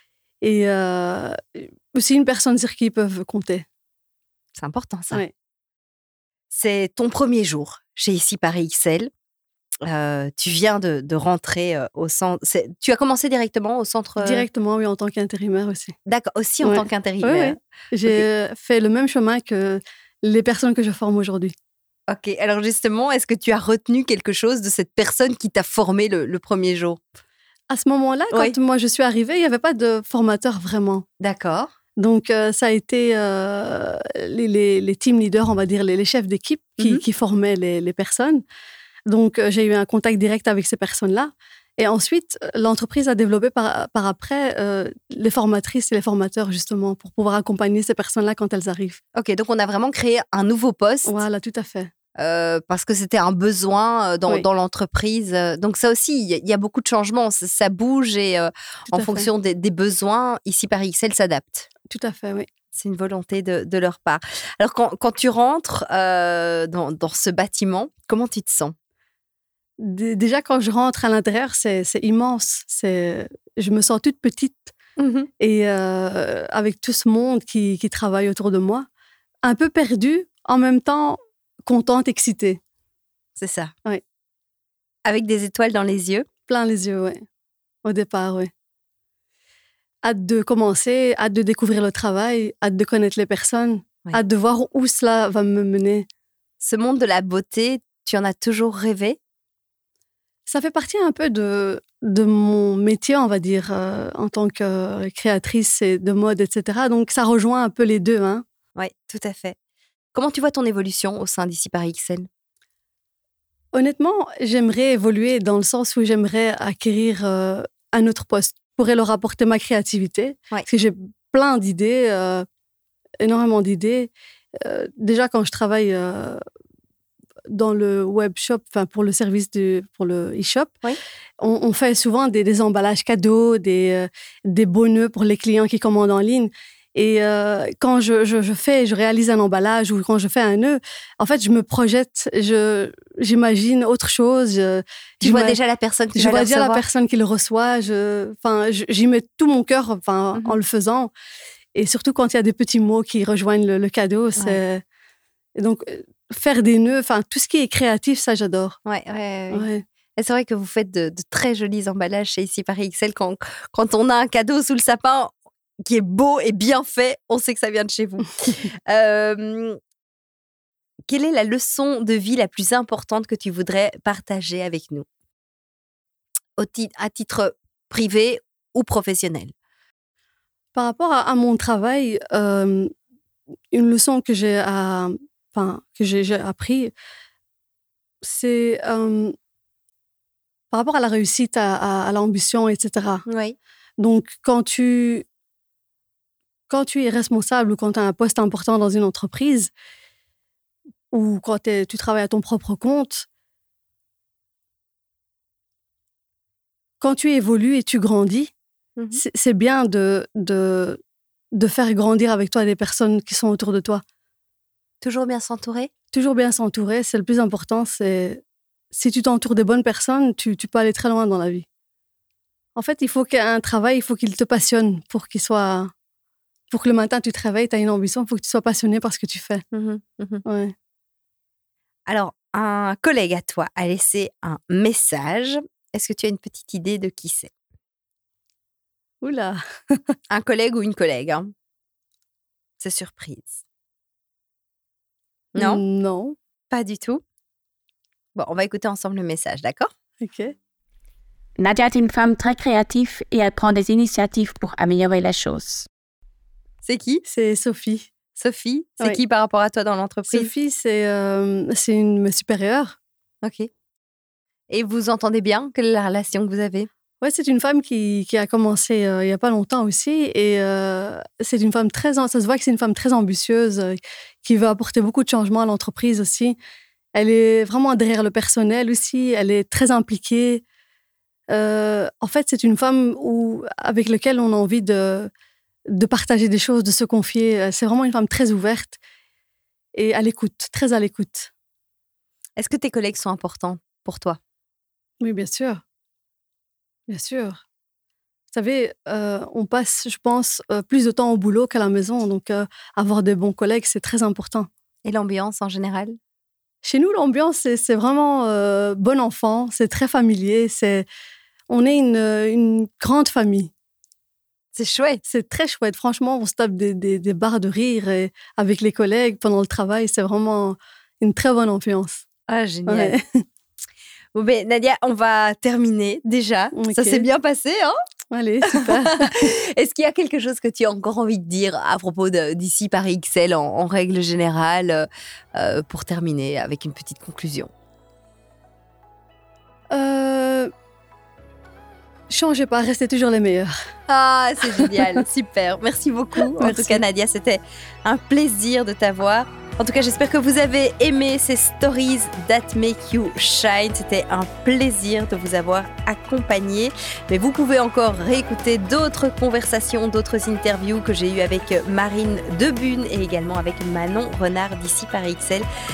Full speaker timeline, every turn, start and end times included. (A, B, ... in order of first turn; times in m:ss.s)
0:00.4-0:03.6 A
0:04.6-0:05.2 B
0:06.5-0:09.1 B
0:09.9-0:14.5 B
0:14.2-0:16.0 A
0:16.1-0:18.2 B
0:16.6-0:21.6 A
0:22.1-0:27.1 B
0:27.7-0:31.0 A
0:28.3-0:28.6 B
0:31.2-0:31.7 B
0:32.0-0:38.4 A
0:39.1-0:49.0 A
0:49.1-0:51.2 B
0:51.0-0:51.9 A
0:52.2-1:01.7 B
0:58.9-0:59.3 A
1:01.9-1:02.5 A
1:02.7-1:08.8 B
1:09.8-1:14.7 A
1:15.0-1:15.3 B
1:15.4-1:18.9 A
1:19.4-1:22.6 A
1:23.4-1:23.7 B
1:25.1-1:26.3 B
1:26.5-1:27.2 A
1:27.8-1:28.5 A
1:30.0-1:36.1 A
1:36.6-1:39.2 B
1:40.5-1:48.4 A
1:48.8-1:49.6 B
1:50.1-1:52.3 B
1:53.7-2:02.5 A
2:03.2-2:06.4 A
2:07.5-2:10.8 A
2:11.4-2:25.6 A
2:25.2-2:26.8 B
2:26.1-2:31.1 A
2:30.4-2:30.6 B
2:31.8-2:34.8 A
2:35.6-2:38.8 A
2:38.9-2:45.3 B
2:39.5-2:39.8 A
2:45.9-2:49.8 B
2:51.1-2:55.1 B
2:56.6-2:59.5 B
3:00.7-3:02.9 A
3:03.7-3:06.9 A
3:08.2-3:09.3 A
3:10.7-3:13.2 A
3:13.3-3:13.6 B
3:14.0-3:15.2 A
3:16.7-3:19.7 A
3:21.1-3:23.3 A
3:27.0-3:28.5 A
3:29.0-3:29.2 B
3:29.1-3:31.0 A
3:31.5-3:34.0 A
3:35.0-3:35.9 B
3:36.1-3:41.6 A
3:42.8-3:45.9 A
3:46.7-3:49.6 A
3:49.7-3:50.4 B
3:50.4-3:50.7 A
3:52.1-3:57.5 B
3:59.2-4:00.1 A
4:00.3-4:01.5 B
4:02.8-4:03.6 B
4:05.6-4:05.8 B
4:05.6-4:06.4 A
4:06.7-4:07.2 B
4:08.4-4:09.9 B
4:10.2-4:10.5 A
4:11.6-4:15.9 C
4:16.8-4:17.2 B
4:17.2-4:18.1 A
4:18.3-4:20.5 B
4:20.3-4:23.0 A
4:23.4-4:23.7 B
4:24.7-4:26.9 B
4:27.2-4:36.6 A
4:37.1-4:40.6 A
4:41.5-4:45.3 A
4:45.9-4:49.0 A
4:50.0-4:51.5 A
4:52.6-4:54.4 B
4:55.2-4:55.8 A
4:57.1-4:57.6 A
4:58.5-5:04.7 A
5:05.0-5:06.2 B
5:06.8-5:11.1 A
5:11.7-5:13.7 A
5:14.8-5:15.2 B
5:15.2-5:22.2 A
5:22.5-5:23.1 B
5:22.9-5:23.4 A
5:24.4-5:28.0 B
5:26.7-5:27.3 A
5:28.3-5:29.4 A
5:28.6-5:37.7 B
5:39.9-5:40.7 A
5:42.3-5:43.7 A
5:44.1-6:05.7 B
5:44.7-5:45.2 A
5:46.4-5:47.0 A